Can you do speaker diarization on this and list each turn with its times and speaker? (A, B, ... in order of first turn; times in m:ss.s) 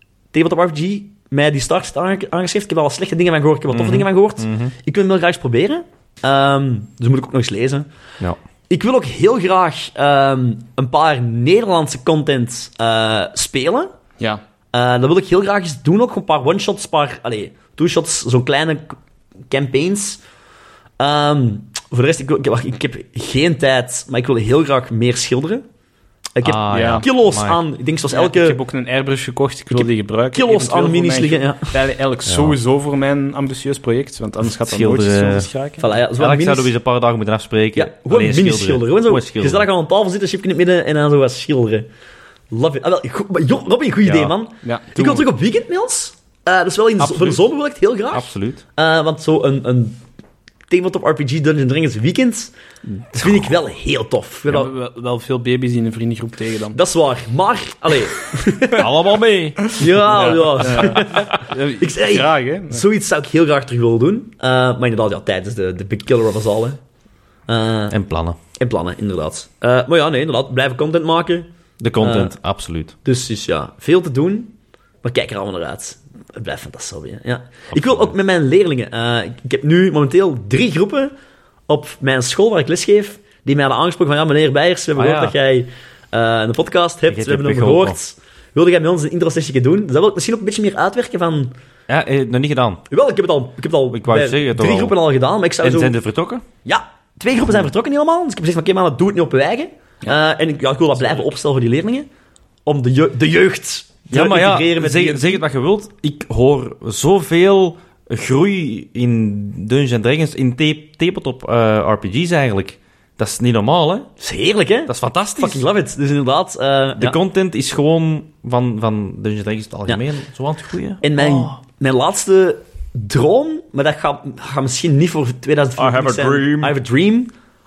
0:00.3-0:07.9 A
0:03.7-0:04.7 B
0:08.7-0:13.9 A
0:14.7-0:19.0 A
0:19.5-0:20.2 A
0:21.0-0:25.6 A
0:26.4-0:28.6 A
0:26.4-0:27.6 B
0:26.7-0:27.1 C
0:28.1-0:35.9 C
0:29.7-0:31.8 A
0:32.2-0:32.6 B
0:34.5-0:35.5 B
0:35.8-0:36.7 A
0:36.2-0:39.7 B
0:37.8-0:41.9 A
0:42.5-0:50.0 A
0:44.0-0:44.4 B
0:44.6-0:45.3 C
0:47.0-0:47.4 B
0:48.1-0:48.6 B
0:50.7-0:54.7 A
0:54.5-0:56.8 C
0:56.7-0:58.9 A
0:58.8-0:59.7 B
0:59.7-1:02.9 C
0:59.7-1:06.8 A
1:07.5-1:08.0 A
1:07.9-1:08.4 B
1:08.6-1:11.5 A
1:11.8-1:13.0 B
1:12.0-1:12.3 A
1:13.0-1:14.5 A
1:15.0-1:21.1 A
1:17.7-1:18.1 B
1:21.7-1:31.5 A
1:25.0-1:25.4 B
1:27.1-1:28.0 B
1:31.9-1:32.8 B
1:32.9-1:35.9 A
1:33.9-1:35.0 B
1:35.6-1:36.4 B
1:36.6-1:42.1 A
1:42.6-1:45.4 A
1:44.1-1:54.1 B
1:54.2-1:57.2 A
1:54.9-1:55.6 B
1:57.0-2:01.6 B
2:01.0-2:07.3 A
2:05.8-2:06.8 B